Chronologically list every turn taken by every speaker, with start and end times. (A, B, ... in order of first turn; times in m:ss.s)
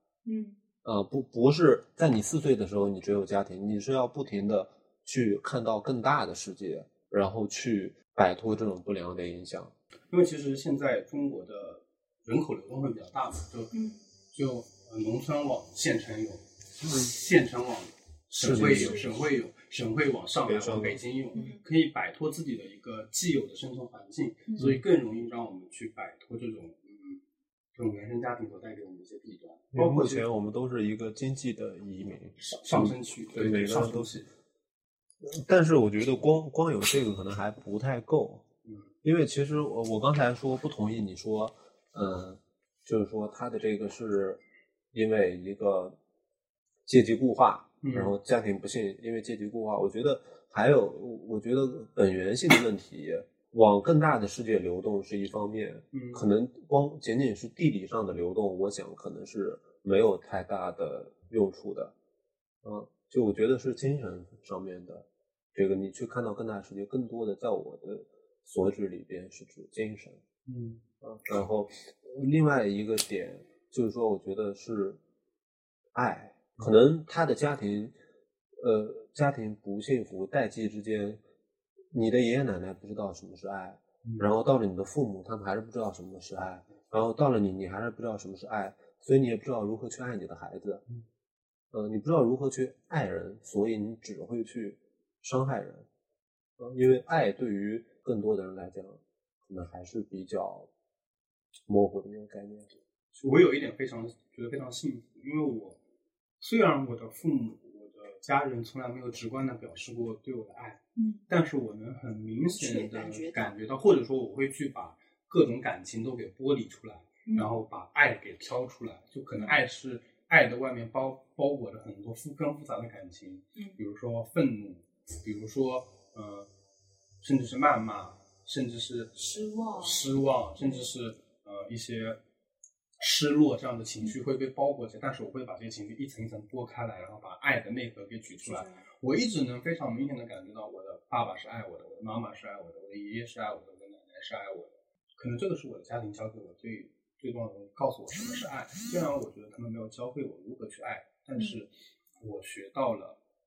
0:00.2-0:00.6 A
0:00.8-0:09.7 B
0:10.1-0:13.7 C
0:13.7-0:14.0 A
0:14.3-0:27.2 C
0:18.4-0:19.0 B
0:18.6-0:19.0 A
0:20.4-0:21.0 B
0:21.3-0:21.6 A
0:27.7-0:30.2 C
0:29.7-0:34.1 B
0:32.4-0:34.3 C
0:35.2-0:38.4 B
0:38.6-0:38.9 C
0:39.0-0:44.4 B
0:44.9-0:46.0 B
0:46.9-1:01.9 B
0:47.8-0:48.1 C
0:55.9-0:56.3 C
1:02.6-1:10.2 B
1:10.4-1:10.8 C
1:11.0-1:15.0 B
1:15.9-1:17.9 B
1:18.6-1:21.2 B
1:21.9-1:30.8 B
1:24.0-1:24.3 C
1:31.7-1:35.9 B
1:36.6-1:40.7 B
1:41.7-1:42.7 B
1:43.1-1:45.8 C
1:46.4-2:06.5 C
1:51.0-1:51.2 A
1:52.6-1:53.5 A
1:57.2-1:57.5 A
1:59.4-1:59.6 A
2:07.2-2:09.2 C
2:09.2-2:10.9 A
2:09.8-2:12.2 C
2:13.0-2:33.2 C
2:18.4-2:18.8 A